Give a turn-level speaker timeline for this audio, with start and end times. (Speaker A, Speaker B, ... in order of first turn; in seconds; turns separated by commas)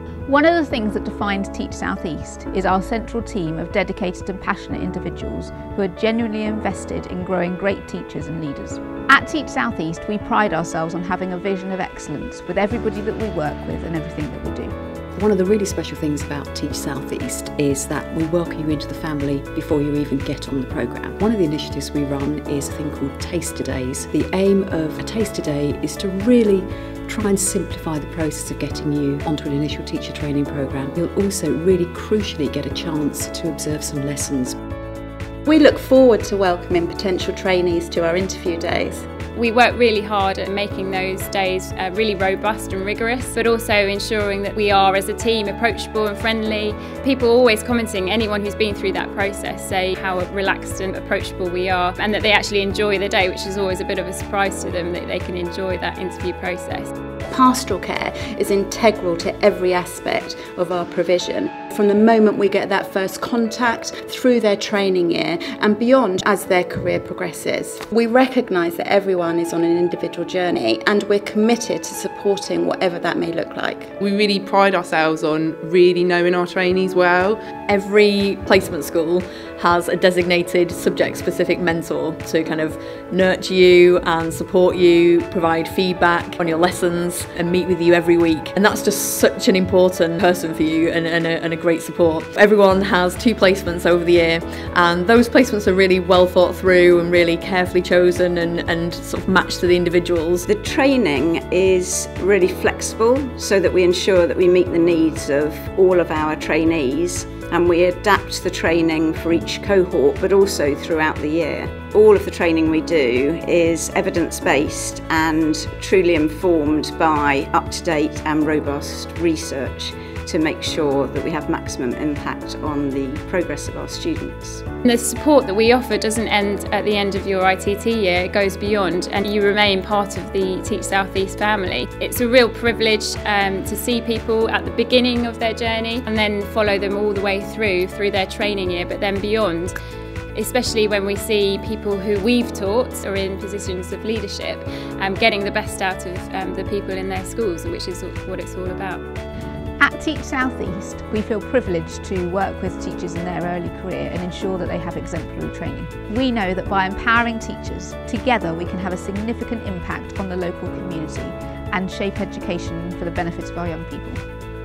Speaker A: 0.3-14.7, Speaker B: 15.1-34.6, Speaker C: 35.5-39.0, Speaker D: 39.4-56.9, Speaker C: 57.3-73.9, Speaker E: 74.0-77.4, Speaker F: 77.7-100.5, Speaker G: 100.5-124.6, Speaker D: 124.8-139.8, Speaker D: 140.3-149.0, Speaker A: 149.8-164.2